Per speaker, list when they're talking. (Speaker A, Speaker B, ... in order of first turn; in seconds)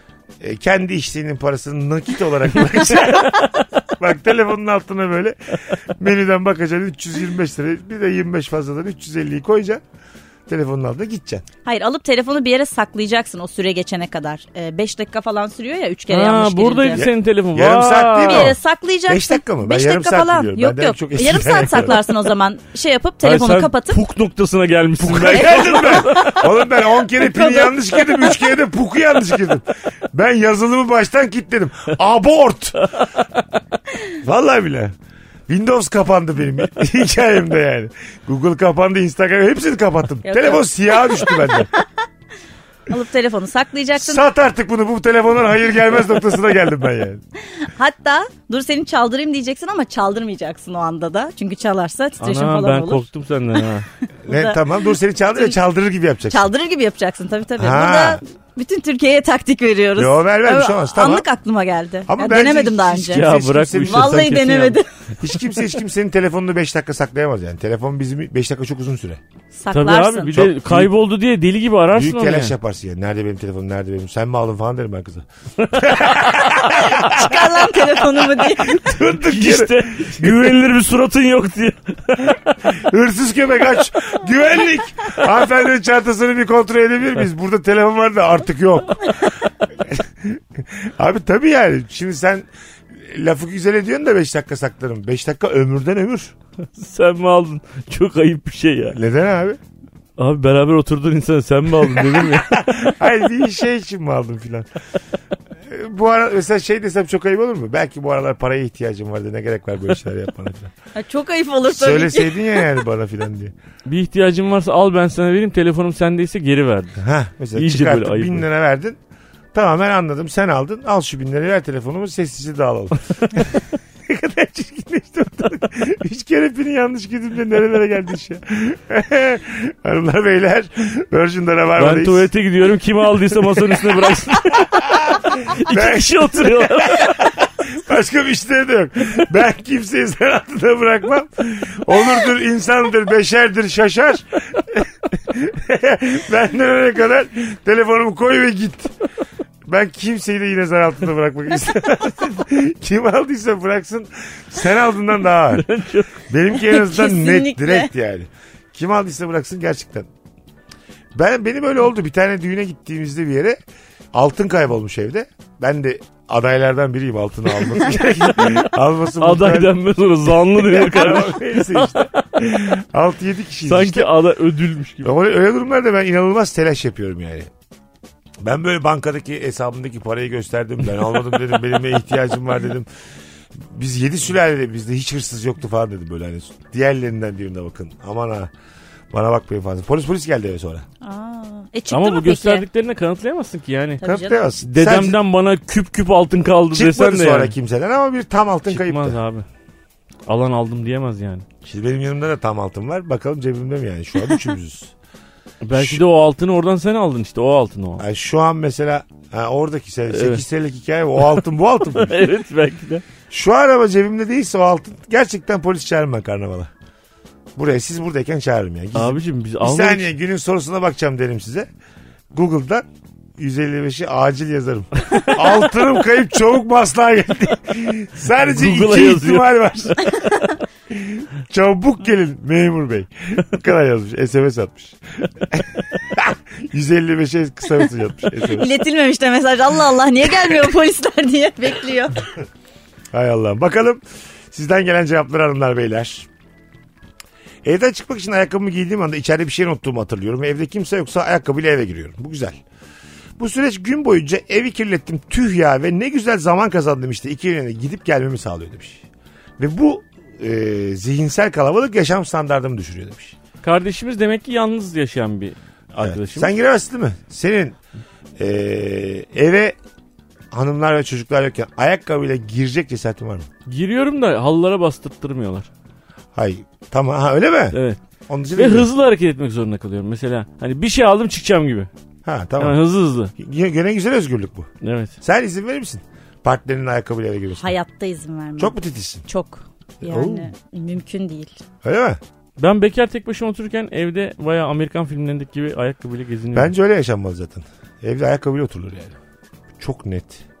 Speaker A: 0.4-9.8, 10.5-11.4, 16.9-22.0, 25.0-32.9, 34.2-34.9, 35.5-41.7, 44.0-47.2, 54.2-56.5, 57.6-58.2, 60.0-61.2, 62.1-64.5, 65.2-69.2, 70.3-70.9, 71.9-80.5, 82.6-96.3, 98.9-99.6, 101.9-104.7, 105.6-110.7, 111.7-113.5, 117.0-119.0, 119.5-132.3, 134.7-148.9, 149.7-155.7, 156.2-160.1, 161.1-163.6, 164.1-169.7, 170.4-174.1, 175.0-177.5, 178.4-182.9, 183.6-188.5, 189.1-190.8, 194.0-195.2, 196.7-199.2, 201.6-204.9, 205.7-206.0, 208.0-212.2, 213.3-216.7, 217.6-221.7, 222.3-222.8, 223.4-230.3, 230.9-238.7, 243.1-246.3, 247.6-252.6, 253.4-259.0, 259.6-263.3, 266.0-267.8, 268.4-269.8, 270.5-273.5, 276.3-277.8, 278.3-278.9, 282.2-282.8, 283.3-284.7, 285.2-287.7, 288.6-289.2, 290.0-290.5, 291.8-292.2, 296.5-299.1, 299.8-300.4
Speaker B: 11.6-17.1, 18.2-24.0, 25.3-26.4, 27.2-28.2, 40.2-41.8, 42.9-44.2, 47.4-53.1, 54.2-55.5, 56.3-64.9, 69.5-70.4, 76.8-78.8, 110.9-112.6, 156.6-157.9, 191.0-192.6, 194.0-194.4, 238.5-242.2, 287.6-291.6
Speaker C: 16.1-18.5, 23.2-26.4, 52.2-53.9, 63.1-64.8, 69.7-72.5, 75.6-76.2, 79.1-82.5, 96.7-99.0, 100.2-102.7, 113.8-117.0, 117.5-118.4, 131.8-137.3, 155.5-156.2, 169.2-172.2, 173.6-175.1, 191.9-194.0, 194.6-197.5, 198.7-199.4, 200.3-201.4, 205.6-208.0, 210.1-210.4, 211.9-213.0, 218.9-220.1, 228.4-229.6, 263.6-266.5, 273.6-275.7, 277.7-278.0, 278.5-281.9, 282.6-283.3, 284.8-285.1, 292.6-296.7